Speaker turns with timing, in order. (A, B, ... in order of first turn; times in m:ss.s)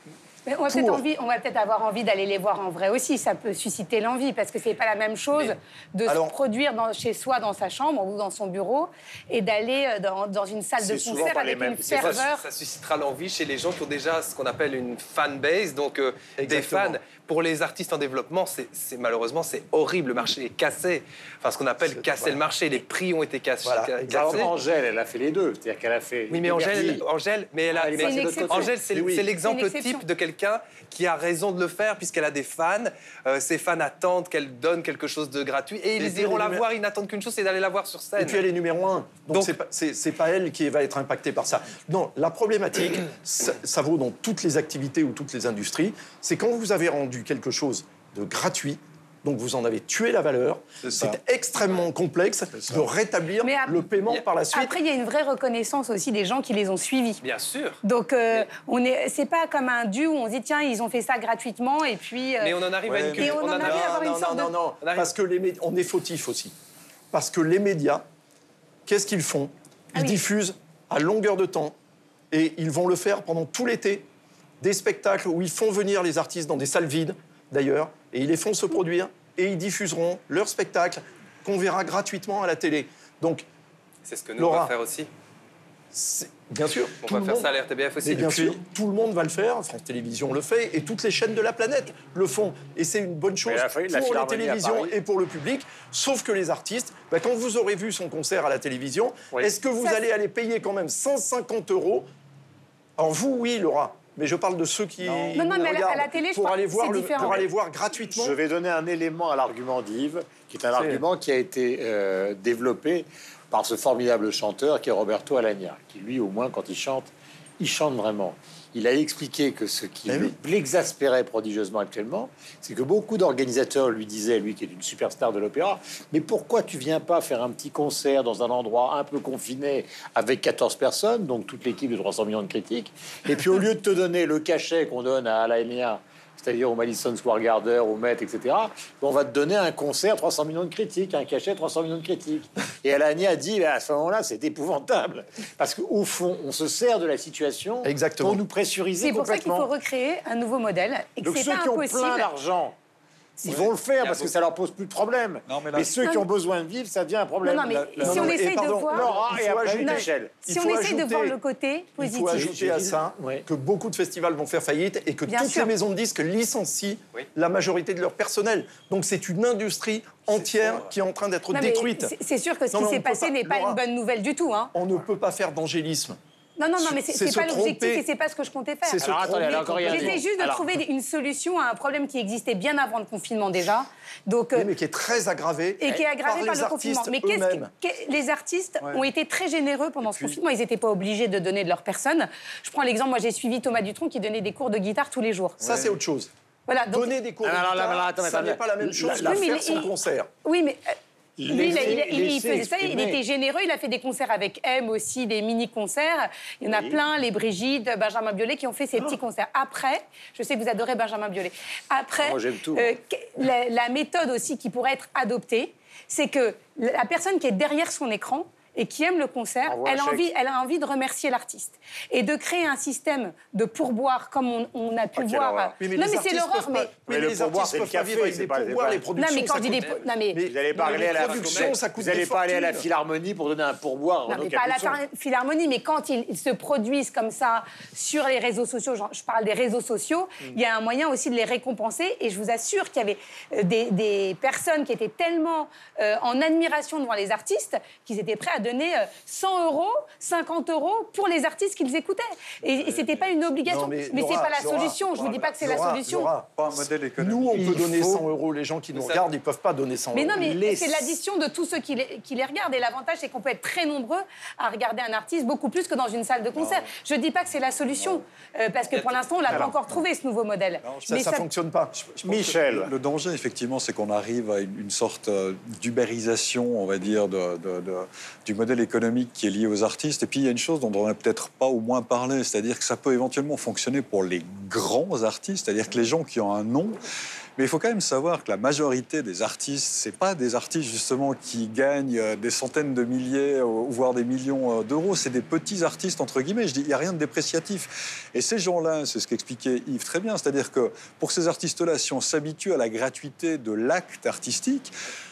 0:00.5-0:12.4 A
0:00.7-0:01.0 B
0:06.1-0:06.4 B
0:10.8-0:12.2 C
0:12.0-0:24.5 D
0:16.4-0:17.0 B
0:21.9-0:22.4 B
0:23.6-0:24.5 B
0:24.1-0:27.0 C
0:26.3-0:38.4 D
0:26.7-0:27.0 B
0:27.7-0:28.7 C
0:28.0-0:28.7 A
0:28.9-0:29.3 B
0:29.4-0:30.0 A
0:36.0-0:36.6 B
0:38.2-0:54.8 B
0:50.8-0:51.2 E
0:52.6-0:52.9 E
0:53.4-0:53.9 A
0:54.5-0:57.2 A
0:57.2-0:57.8 D
0:57.8-1:02.6 A
1:02.4-1:03.9 D
1:02.8-1:03.4 E
1:03.2-1:04.5 A
1:03.4-1:06.5 B
1:04.8-1:05.1 D
1:07.1-1:08.0 B
1:08.9-1:11.8 B
1:10.0-1:10.2 A
1:12.3-1:14.1 B
1:14.6-1:23.5 B
1:24.1-1:25.1 D
1:24.4-1:24.7 B
1:25.9-1:27.5 B
1:27.0-1:28.6 D
1:28.0-1:42.1 B
1:33.5-1:34.9 C
1:43.0-1:48.4 B
1:45.1-1:45.4 C
1:45.4-1:47.4 A
1:48.0-2:29.7 C
1:50.7-1:51.0 B
2:00.1-2:00.4 B
2:27.8-2:28.4 B
2:29.0-2:32.3 A
2:31.2-2:32.8 C
2:33.4-2:40.4 C
2:34.0-2:34.3 D
2:35.5-2:36.1 E
2:37.4-2:39.1 A
2:38.0-2:41.4 B
2:39.8-2:42.4 A
2:42.0-2:52.1 B
2:42.3-2:43.5 C
2:45.3-2:45.7 A
2:51.5-2:54.7 A
2:52.7-2:53.8 B
2:54.7-2:56.2 B
2:56.6-2:59.0 A
2:56.8-2:58.0 B
2:58.8-3:00.2 B
2:59.0-3:00.8 C
2:59.8-3:04.7 A
3:04.5-3:07.7 B
3:05.8-3:15.6 A
3:10.0-3:10.4 E
3:15.6-3:16.3 B
3:15.6-3:15.9 E
3:16.7-3:17.2 A
3:16.9-3:20.3 B
3:17.4-3:19.6 C
3:19.2-3:19.9 A
3:20.4-3:21.0 A
3:21.4-3:23.2 C
3:21.5-3:46.9 A
3:26.7-3:27.0 C
3:32.2-3:32.9 C
3:39.7-3:40.3 C
3:45.2-3:45.8 C
3:45.8-3:52.9 B
3:47.1-3:49.0 C
3:49.2-3:50.4 A
3:50.4-3:55.0 C
3:50.8-3:51.8 D
3:54.3-4:16.3 A
4:12.7-4:13.4 E
4:13.7-4:15.1 B
4:15.0-4:18.2 E
4:15.6-4:21.0 B
4:19.0-4:19.2 D
4:20.1-4:31.4 A
4:26.6-4:26.9 E
4:29.5-4:29.8 E
4:30.8-4:31.2 E
4:31.1-4:31.9 B
4:31.9-4:47.0 E
4:32.2-4:32.9 C
4:47.6-5:04.9 E